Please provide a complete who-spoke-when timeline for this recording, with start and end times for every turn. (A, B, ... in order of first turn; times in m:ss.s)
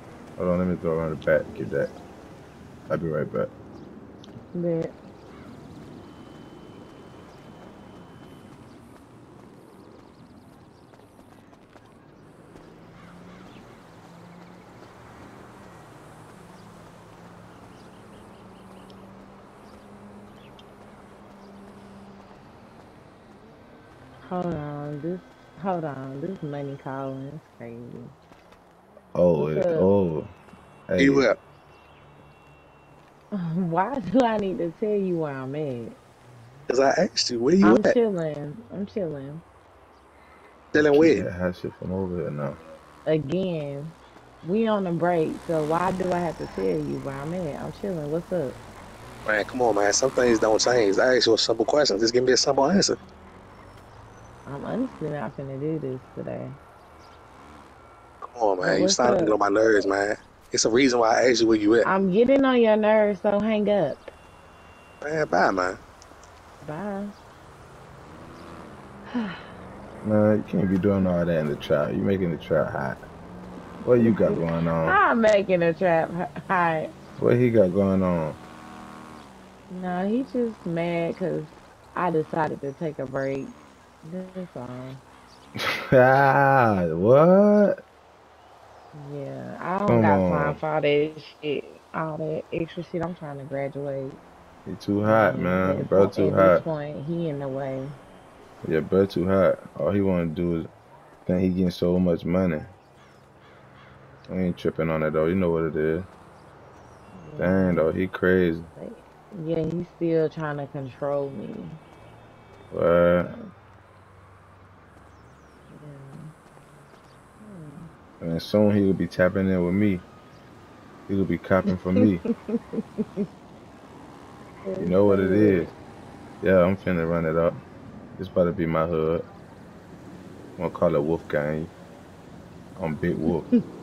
0:00.4-0:01.9 A
0:02.9-0:03.5 A
0:04.5-0:04.9 B
0:24.2-0:28.1 B
0:29.2-0:30.3 A
0:29.4-0:29.9 B
0:30.9-0:31.3 A
0:31.0-0:31.4 C
0:33.3-0:36.0 B
0:36.7-0:38.0 C
0:37.6-0:39.4 B
0:40.7-0:41.2 C
0:40.8-0:42.6 A
0:43.1-0:48.6 B
0:49.3-0:53.0 C
0:54.5-0:56.6 B
0:58.2-1:01.9 C
0:58.6-0:59.4 B
1:01.8-1:04.1 B
1:05.0-1:05.8 C
1:06.6-1:07.1 B
1:09.1-1:09.5 B
1:10.0-1:13.0 A
1:13.8-1:15.0 A
1:14.0-1:16.9 B
1:17.2-1:18.4 A
1:19.7-1:23.5 B
1:24.0-1:25.0 B
1:25.6-1:27.8 A
1:28.9-1:34.2 B
1:29.8-1:30.6 A
1:34.7-1:36.6 A
1:35.0-1:37.9 B
1:38.6-1:40.7 A
1:41.3-1:42.7 A
1:44.3-1:46.1 A
1:47.2-1:47.9 B
1:47.4-1:48.7 A
1:48.8-1:51.8 B
1:52.7-1:53.3 A
1:55.7-1:56.3 B
1:57.4-1:57.9 B
1:58.2-2:00.0 A
2:01.1-2:02.2 A
2:02.2-2:03.3 B
2:04.6-2:05.7 B
2:04.8-2:05.7 A
2:06.4-2:07.6 A
2:08.2-2:09.2 A
2:10.6-2:11.7 A
2:12.8-2:13.5 A